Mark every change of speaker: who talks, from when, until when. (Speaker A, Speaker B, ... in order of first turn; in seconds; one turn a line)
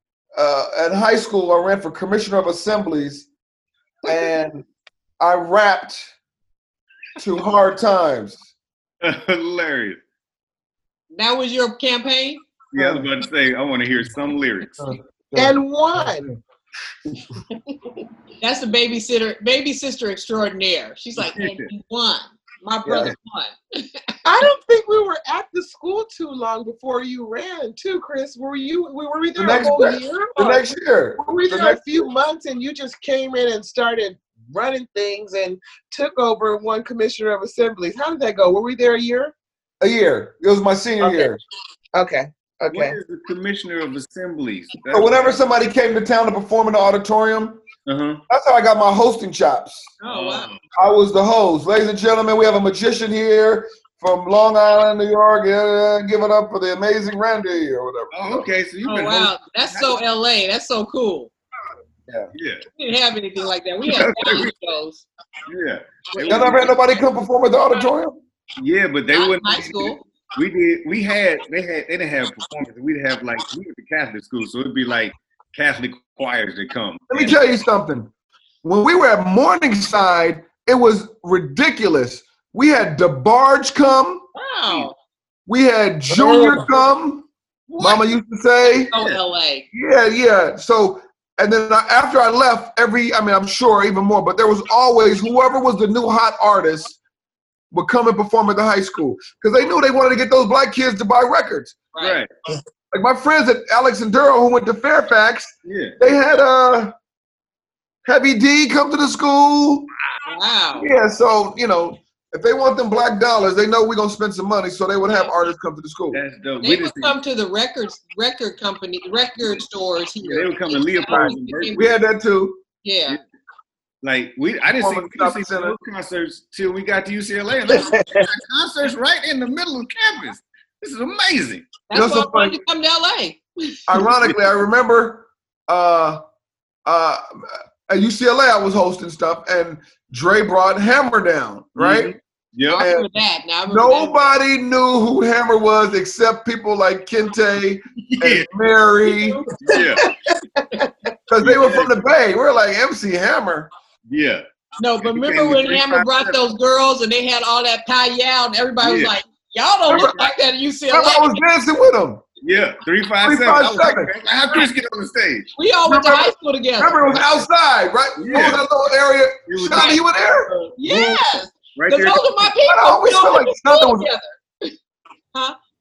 Speaker A: 0.3-3.3
Speaker A: 4.0-4.6
Speaker A: 5.2-6.0
Speaker A: 7.2-8.4
Speaker B: 9.0-10.0
Speaker C: 11.1-12.4
Speaker B: 12.7-14.9
Speaker A: 12.7-13.1
Speaker A: 14.8-16.4
Speaker D: 15.3-16.3
Speaker C: 18.4-24.2
Speaker B: 21.2-21.7
Speaker A: 22.8-23.1
Speaker D: 24.2-30.6
Speaker A: 29.4-32.1
Speaker D: 31.2-39.3
Speaker A: 39.8-41.4
Speaker D: 41.0-41.3
Speaker D: 41.9-43.0
Speaker B: 42.7-45.4
Speaker A: 44.9-47.6
Speaker B: 47.9-48.2
Speaker A: 48.3-49.9
Speaker C: 50.0-50.5
Speaker B: 50.0-50.6
Speaker A: 50.8-58.5
Speaker B: 58.1-60.0
Speaker C: 58.9-61.3
Speaker B: 62.3-62.6
Speaker C: 62.7-65.0
Speaker B: 63.8-64.5
Speaker B: 65.5-66.7
Speaker C: 66.1-66.7
Speaker A: 66.3-68.2
Speaker B: 68.6-77.3
Speaker C: 69.1-70.0
Speaker A: 77.1-78.1
Speaker A: 78.6-84.2
Speaker C: 84.3-84.9
Speaker A: 85.5-87.3
Speaker D: 86.1-86.8
Speaker B: 87.7-88.0
Speaker A: 87.8-88.9
Speaker C: 88.9-89.7
Speaker B: 88.9-89.2
Speaker A: 89.7-97.0
Speaker A: 97.7-101.8
Speaker C: 101.9-102.2
Speaker B: 102.0-102.3
Speaker A: 102.9-106.9
Speaker B: 105.6-106.0
Speaker A: 108.0-109.9
Speaker C: 110.2-110.9
Speaker A: 110.8-116.2
Speaker B: 116.1-117.2
Speaker C: 116.6-121.9
Speaker B: 120.2-121.9
Speaker A: 121.1-122.6
Speaker C: 122.8-123.2
Speaker B: 124.0-131.7
Speaker A: 124.7-125.8
Speaker D: 127.7-128.3
Speaker C: 131.9-133.8
Speaker A: 131.9-132.6
Speaker A: 133.9-136.2
Speaker A: 136.8-142.1
Speaker B: 141.8-142.8
Speaker C: 142.7-144.2
Speaker A: 142.8-143.1
Speaker A: 143.7-149.4
Speaker B: 148.1-148.5
Speaker C: 149.0-150.0
Speaker B: 149.6-150.0
Speaker D: 149.7-150.9
Speaker A: 151.3-153.7
Speaker B: 151.4-152.0
Speaker B: 154.1-154.4
Speaker C: 154.8-161.4
Speaker B: 155.0-156.4
Speaker B: 158.8-159.1
Speaker A: 159.9-160.3
Speaker A: 160.9-162.2
Speaker B: 162.4-165.5
Speaker A: 163.2-164.1
Speaker C: 165.6-167.4
Speaker A: 165.8-170.5
Speaker B: 168.2-168.6
Speaker B: 169.5-170.0
Speaker C: 169.7-170.0
Speaker C: 170.8-174.7
Speaker B: 170.8-171.2
Speaker B: 171.7-172.5
Speaker A: 172.6-174.1